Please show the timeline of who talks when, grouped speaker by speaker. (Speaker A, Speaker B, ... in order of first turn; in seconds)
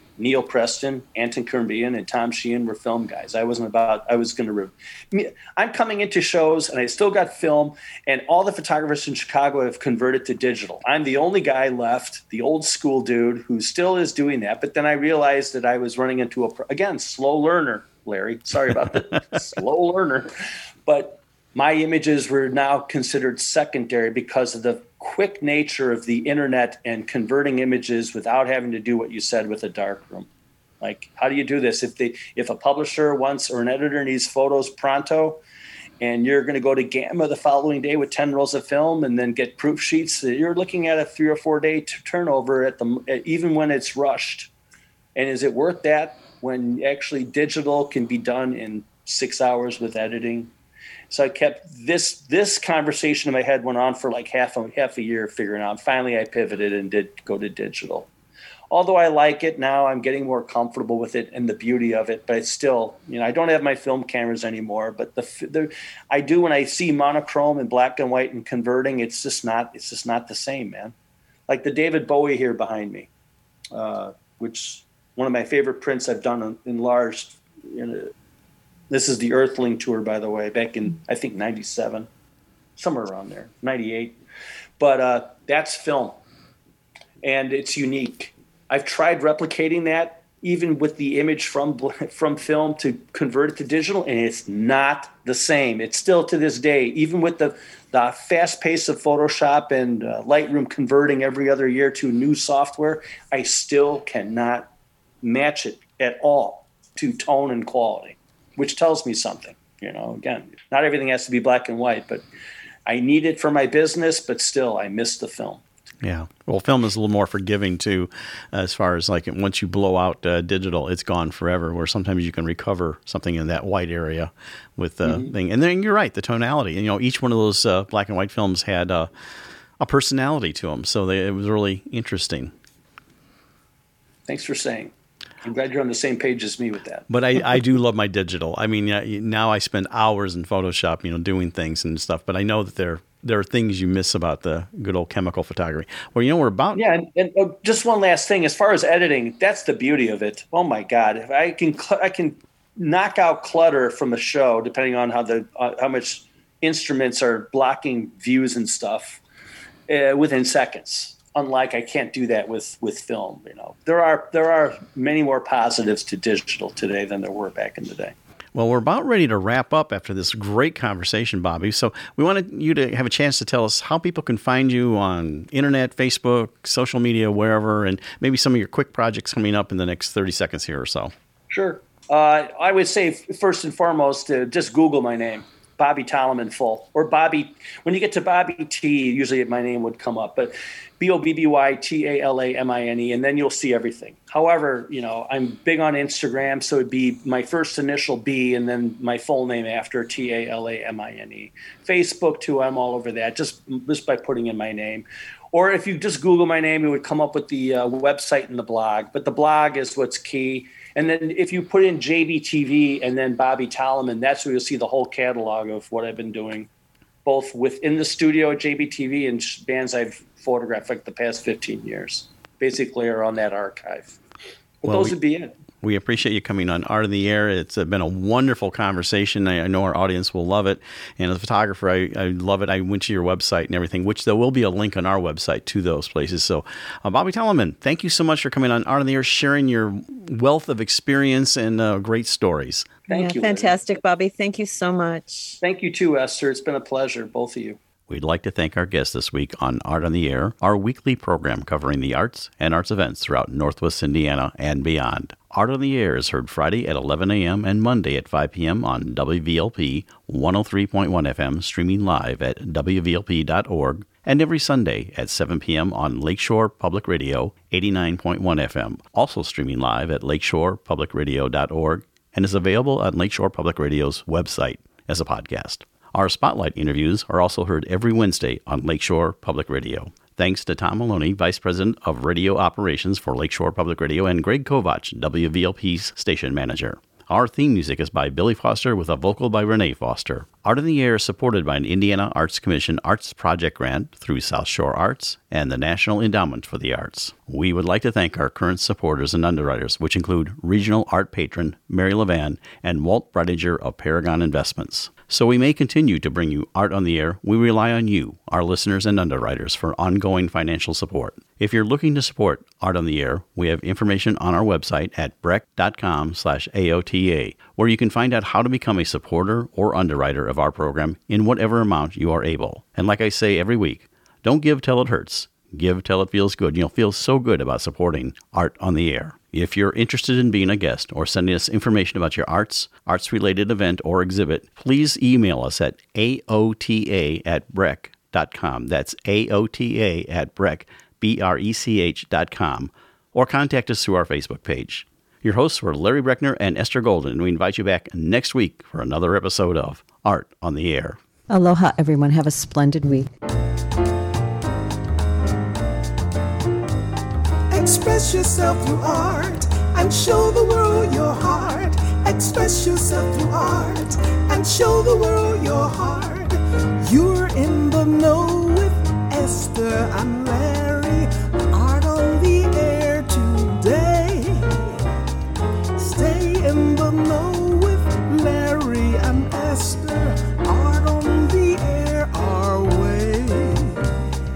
Speaker A: 0.2-20.3, 20.9-30.3, 30.8-35.4, 36.0-44.5, 45.1-50.5, 51.1-58.1, 58.7-70.9, 71.5-73.1, 73.7-78.1, 78.9-82.1, 82.8-84.2, 84.8-86.2, 87.2-104.7, 105.2-112.2, 112.8-115.6, 125.0-125.3, 134.2-137.1, 146.7-159.2, 159.9-168.1, 181.5-216.7, 217.2-224.2, 224.8-225.5, 243.1-243.8, 245.6-247.8
Speaker B: 116.0-129.1, 129.8-132.5, 137.1-146.8, 168.5-181.1, 224.8-225.1, 225.8-242.9, 248.1-351.2
Speaker C: 243.1-245.6, 351.5-353.3
Speaker D: 357.7-374.9, 375.9-384.1